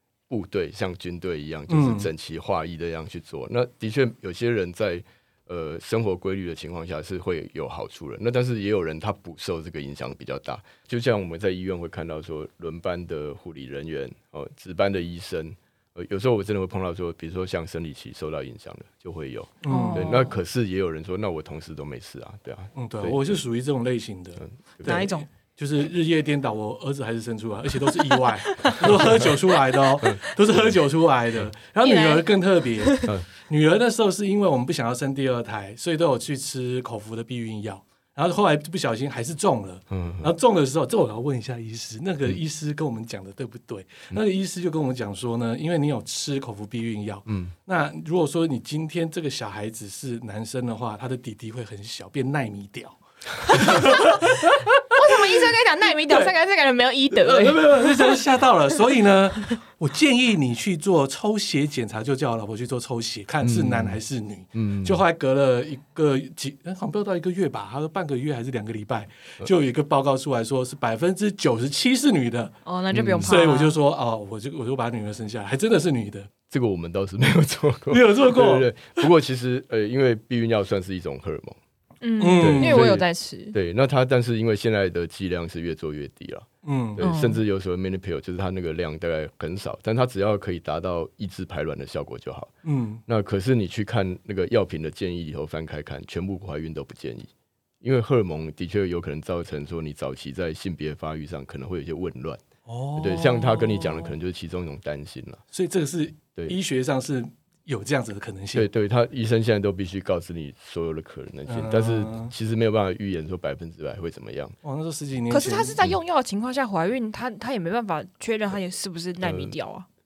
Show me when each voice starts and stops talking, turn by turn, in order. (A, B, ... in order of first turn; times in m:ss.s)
0:00.3-0:23.4 A
0:01.7-0:02.1 B
0:19.6-0:20.2 B
0:19.7-0:20.3 C
0:22.8-0:55.4 B
0:24.4-0:25.1 A
0:24.8-0:25.3 C
0:31.8-0:32.3 C
0:32.8-0:33.1 C
0:39.9-0:40.3 A
0:47.3-0:47.5 A
0:53.6-0:54.2 C
0:54.9-0:58.2 C
0:56.1-0:56.4 B
0:57.1-1:12.6 B
1:03.4-1:04.0 A
1:04.5-1:05.0 A
1:12.6-1:13.8 C
1:12.9-1:13.3 A
1:13.2-1:16.3 B
1:16.5-1:21.6 A
1:17.9-1:18.7 B
1:22.0-1:23.6 C
1:22.2-1:22.9 B
1:22.4-1:32.5 A
1:26.6-1:27.0 B
1:27.0-1:27.4 C
1:32.6-1:33.0 B
1:33.1-1:37.3 A
1:37.8-1:42.4 A
1:42.7-1:43.7 B
1:43.0-1:45.4 A
1:45.5-1:48.7 B
1:48.5-1:54.6 A
1:51.5-1:52.3 B
1:54.6-1:55.8 B
1:55.3-1:59.9 C
1:59.2-1:59.6 A